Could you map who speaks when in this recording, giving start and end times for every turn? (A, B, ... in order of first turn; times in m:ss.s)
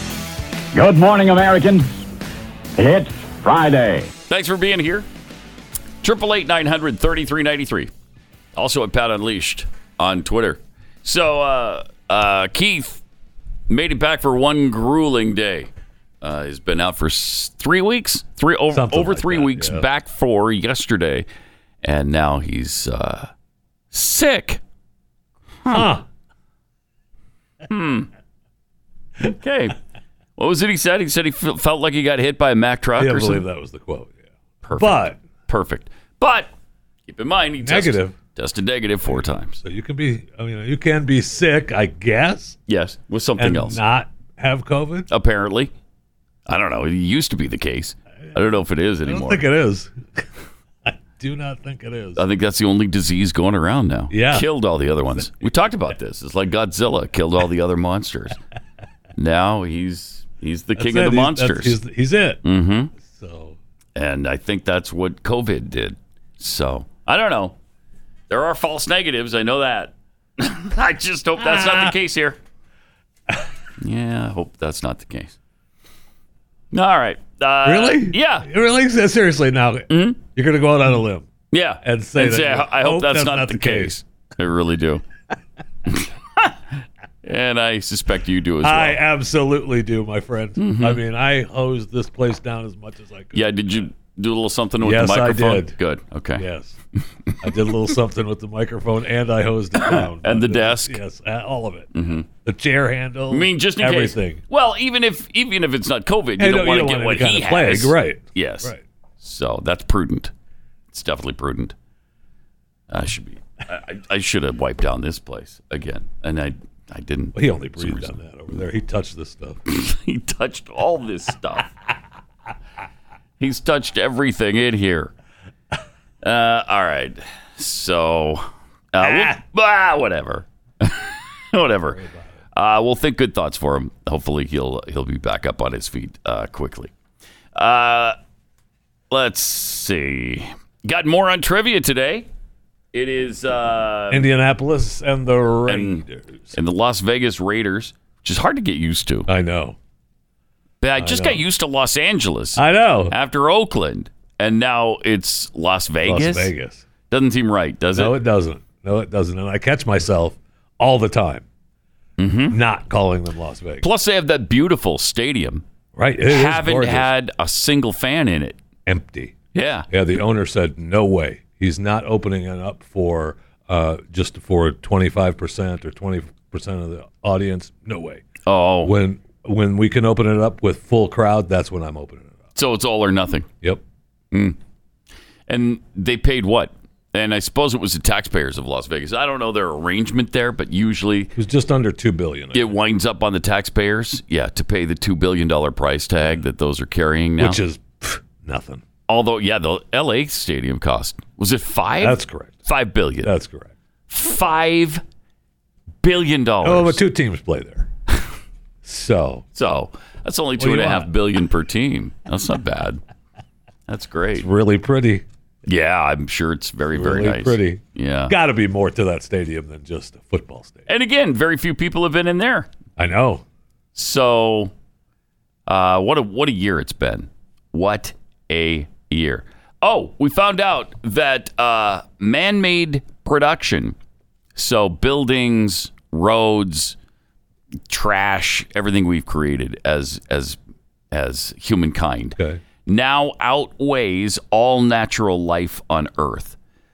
0:00.7-0:01.9 A
0:02.8-0:04.1 A
0:04.3-0:05.1 B
0:06.0-0:07.9 B
0:08.6-0:13.0 B
0:13.7-0:15.7 B
0:16.2-0:21.3 B
0:18.7-0:19.9 C
0:21.8-0:23.3 B
0:23.9-0:24.6 B
0:25.7-0:26.0 C
0:27.7-0:28.1 B
0:29.2-0:29.8 B
0:30.4-0:33.4 B
0:33.0-0:34.2 C
0:34.6-0:36.5 B
0:34.8-0:35.2 C
0:37.1-0:39.6 B
0:37.6-0:38.2 C
0:39.1-0:42.6 C
0:42.7-0:43.8 B
0:43.4-0:45.1 C
0:45.1-0:45.7 B
0:46.5-0:49.4 B
0:49.0-0:50.2 C
0:50.9-0:52.2 C
0:52.2-0:58.4 B
0:54.1-0:54.5 C
0:59.2-1:01.8 B
1:00.8-1:02.4 C
1:02.4-1:02.9 B
1:03.0-1:03.6 C
1:04.0-1:07.6 B
1:08.3-1:12.4 B
1:11.4-1:12.0 C
1:13.8-1:15.4 B
1:16.7-1:18.5 B
1:17.6-1:21.3 C
1:19.9-1:20.2 B
1:21.5-1:25.0 B
1:21.8-1:24.0 C
1:25.9-1:26.5 B
1:27.2-1:29.0 B
1:28.6-1:33.5 C
1:30.6-1:31.0 B
1:33.3-1:36.4 B
1:34.8-1:35.8 C
1:36.4-1:36.8 C
1:37.4-1:44.4 C
1:39.8-1:41.0 B
1:41.9-1:42.3 B
1:43.3-1:50.3 B
1:46.4-1:48.8 C
1:50.9-1:51.7 B
1:52.9-1:58.2 B
1:57.4-1:59.6 C
1:59.7-2:01.7 B
2:03.4-2:05.1 B
2:06.2-2:12.0 B
2:09.0-2:09.4 C
2:11.9-2:12.3 C
2:12.5-2:16.9 B
2:17.6-2:18.2 B
2:19.1-2:22.3 B
2:22.9-2:24.3 B
2:24.1-2:26.5 C
2:25.7-2:29.3 B
2:29.3-2:29.8 C
2:30.8-2:36.5 B
2:31.0-2:31.4 C
2:32.6-2:33.2 C
2:36.0-2:36.8 C
2:37.1-2:38.2 B
2:38.0-2:41.5 C
2:42.2-2:42.6 B
2:42.5-2:43.9 C
2:43.8-2:45.6 B
2:46.0-2:47.1 C
2:46.3-2:48.6 B
2:48.9-2:49.4 C
2:49.5-2:49.9 B
2:49.9-2:58.2 C
2:58.5-2:59.0 B
2:58.8-3:02.4 C
3:02.6-3:03.5 B
3:04.3-3:04.6 B
3:05.5-3:11.3 B
3:11.4-3:12.7 C
3:12.5-3:17.6 B
3:17.4-3:18.8 C
3:19.1-3:23.3 B
3:22.0-3:22.6 C
3:23.2-3:23.7 C
3:24.1-3:25.0 B
3:26.0-3:27.0 B
3:26.6-3:27.9 C
3:28.8-3:29.5 C
3:29.6-3:33.0 B
3:30.6-3:31.1 C
3:33.9-3:34.5 B
3:34.4-3:35.2 C
3:35.7-3:38.4 B
3:36.9-3:40.9 C
3:40.9-3:42.7 B
3:43.0-3:43.4 C
3:44.0-3:44.7 B
3:45.7-3:54.0 B
3:54.6-3:57.0 B
3:57.9-4:00.6 B
4:01.1-4:06.6 B
4:02.4-4:02.6 C